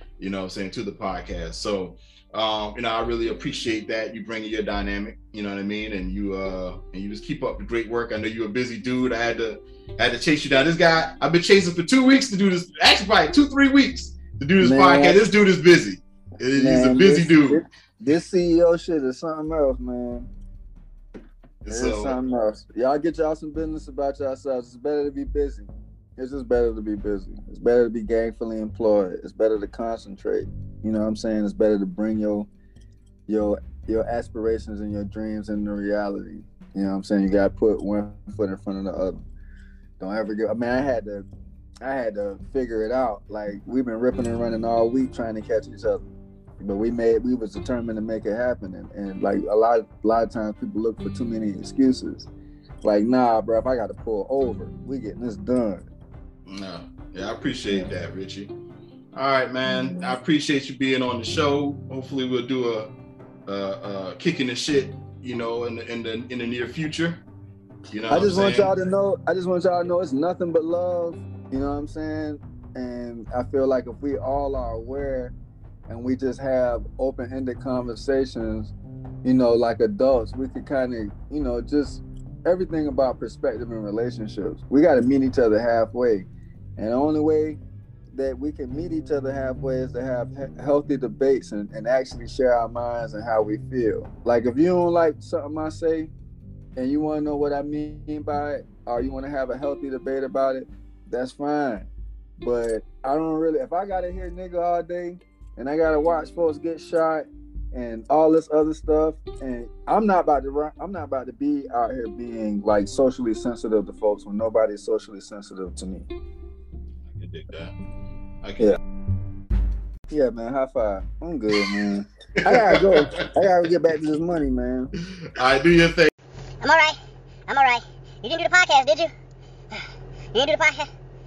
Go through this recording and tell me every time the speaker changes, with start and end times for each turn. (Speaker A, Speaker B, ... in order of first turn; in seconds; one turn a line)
Speaker A: 0.2-17.6
Speaker B: 14.6-15.2
Speaker B: 16.5-20.3
Speaker A: 21.6-22.2
Speaker B: 21.7-32.5
Speaker B: 33.3-39.2
Speaker B: 40.0-41.3
Speaker B: 41.8-52.3
Speaker B: 52.8-55.9
Speaker A: 56.5-58.5
Speaker A: 59.1-62.9
Speaker A: 63.5-67.2
Speaker A: 67.9-68.7
Speaker B: 68.1-75.3
Speaker B: 75.9-78.7
Speaker B: 79.2-87.6
Speaker B: 88.1-96.1
Speaker B: 96.8-116.1
Speaker A: 117.0-117.7
Speaker A: 118.4-118.8
Speaker B: 120.1-124.9
Speaker A: 122.5-123.0
Speaker A: 125.2-126.1
Speaker C: 126.6-129.1
Speaker C: 129.7-130.9